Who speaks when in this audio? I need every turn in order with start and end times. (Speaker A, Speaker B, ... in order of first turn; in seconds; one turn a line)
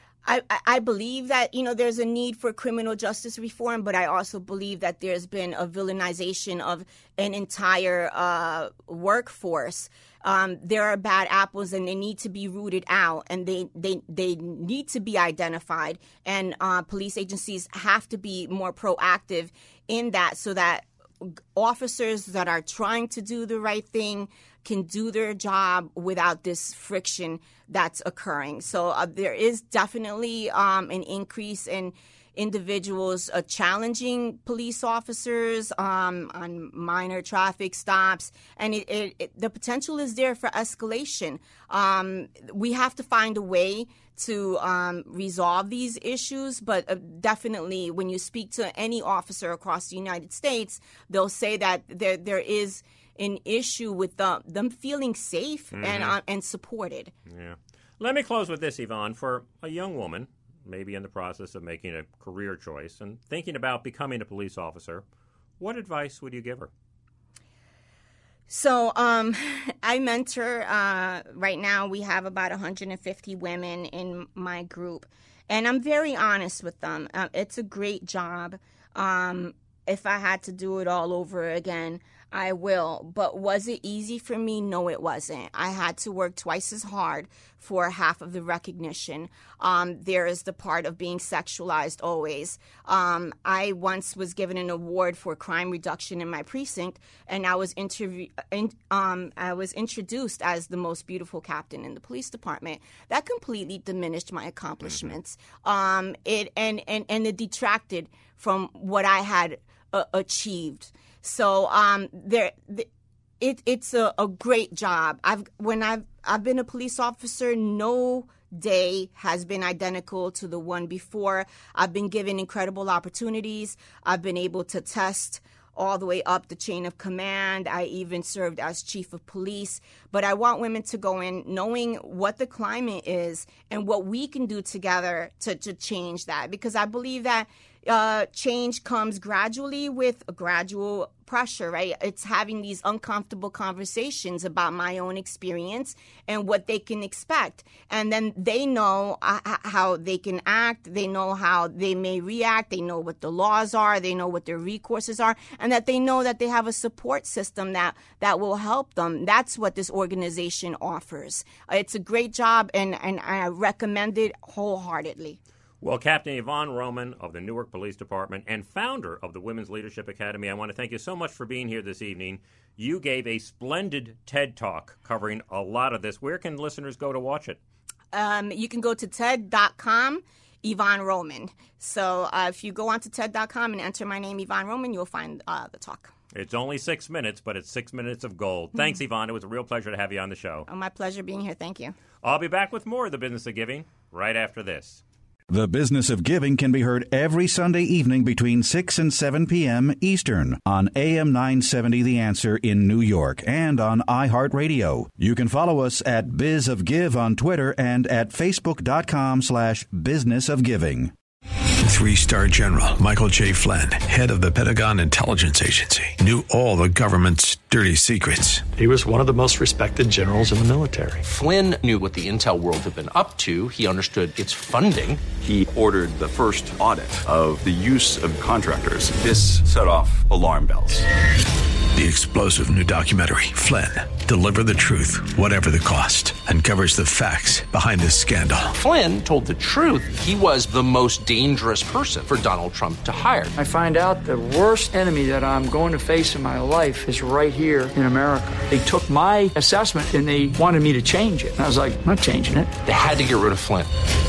Speaker A: 0.2-57.1
Speaker B: 55.7-56.2
Speaker B: 57.3-65.0
Speaker B: 65.6-66.7
Speaker A: 68.5-112.9
Speaker A: 113.4-165.4
Speaker B: 165.8-177.6
Speaker A: 178.1-186.1
Speaker B: 186.3-190.7
Speaker A: 190.7-191.9
Speaker B: 192.2-195.0
Speaker C: 195.5-211.1
Speaker D: 211.8-218.6
Speaker E: 218.8-221.2
Speaker F: 221.2-225.2
Speaker G: 225.4-231.0
Speaker D: 231.9-238.7
Speaker F: 238.7-243.5
Speaker H: 243.5-252.7
Speaker F: 252.8-253.9